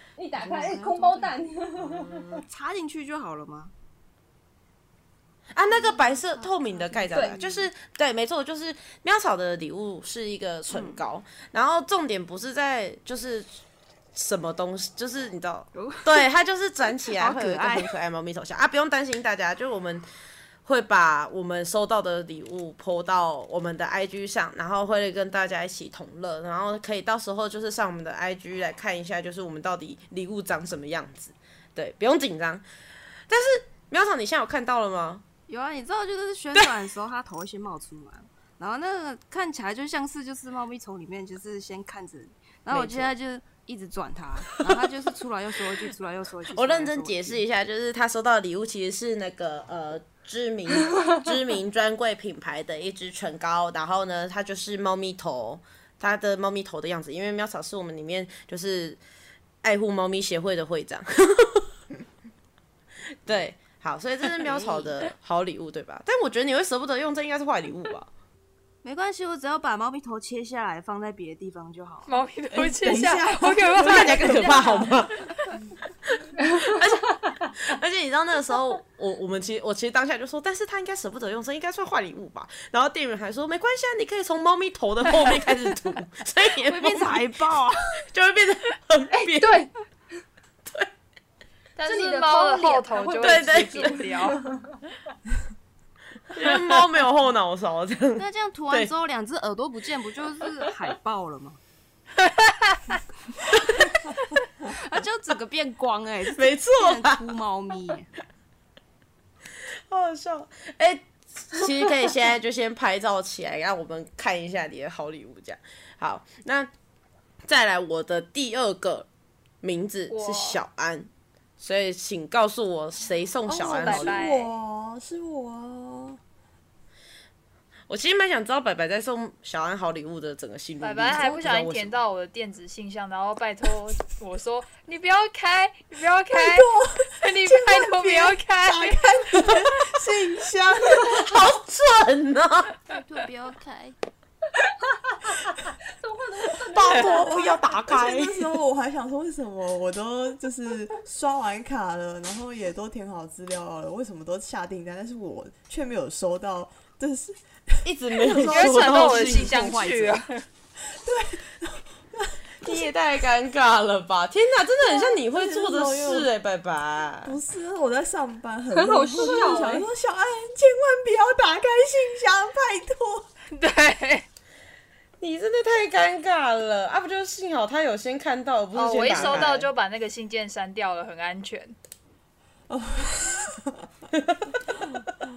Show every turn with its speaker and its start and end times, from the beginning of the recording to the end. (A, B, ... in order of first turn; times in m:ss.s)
0:00.2-0:02.4 A
0:00.4-0:03.7 B
0:05.5-0:13.6 C
0:05.7-0:07.7 B
0:10.7-0:11.0 B
0:14.2-0:20.0 C
0:15.7-0:16.3 B
0:17.1-0:17.9 B
0:20.6-0:32.6 C
0:33.3-0:35.2 C
0:35.5-0:47.4 B
0:42.7-0:43.1 C
0:46.5-0:59.0 C
0:59.6-1:01.7 C
1:03.2-1:08.1 C
1:04.4-1:04.9 B
1:08.8-1:12.1 B
1:12.1-1:14.9 D
1:12.5-1:14.8 E
1:13.8-1:15.3 C
1:16.6-1:29.7 C
1:26.6-1:27.9 B
1:29.1-1:29.7 A
1:31.8-1:34.4 D
1:31.9-1:34.6 A
1:33.2-1:34.0 C
1:36.3-1:38.9 C
1:38.2-1:41.6 B
1:44.6-1:48.1 B
1:46.4-1:47.3 C
1:49.9-1:56.7 C
1:57.4-1:59.1 C
1:59.6-2:04.3 C
2:00.1-2:00.6 D
2:03.5-2:06.2 E
2:03.6-2:04.5 D
2:07.9-2:12.0 C
2:10.8-2:19.1 D
2:16.3-2:21.3 E
2:21.0-2:22.8 C
2:22.9-2:24.0 B
2:25.2-2:27.6 A
2:26.7-2:28.4 C
2:27.2-2:39.8 E
2:37.8-2:39.5 C
2:38.3-2:40.4 D
2:38.7-2:40.3 B
2:40.8-2:42.9 E
2:42.6-2:47.4 C
2:44.8-2:46.3 E
2:47.2-2:53.3 E
2:48.7-2:49.9 A
2:53.6-2:54.3 D
2:55.2-2:59.7 C
2:58.7-3:01.8 D
2:59.1-2:59.6 E
3:02.7-3:03.9 E
3:04.1-3:04.6 C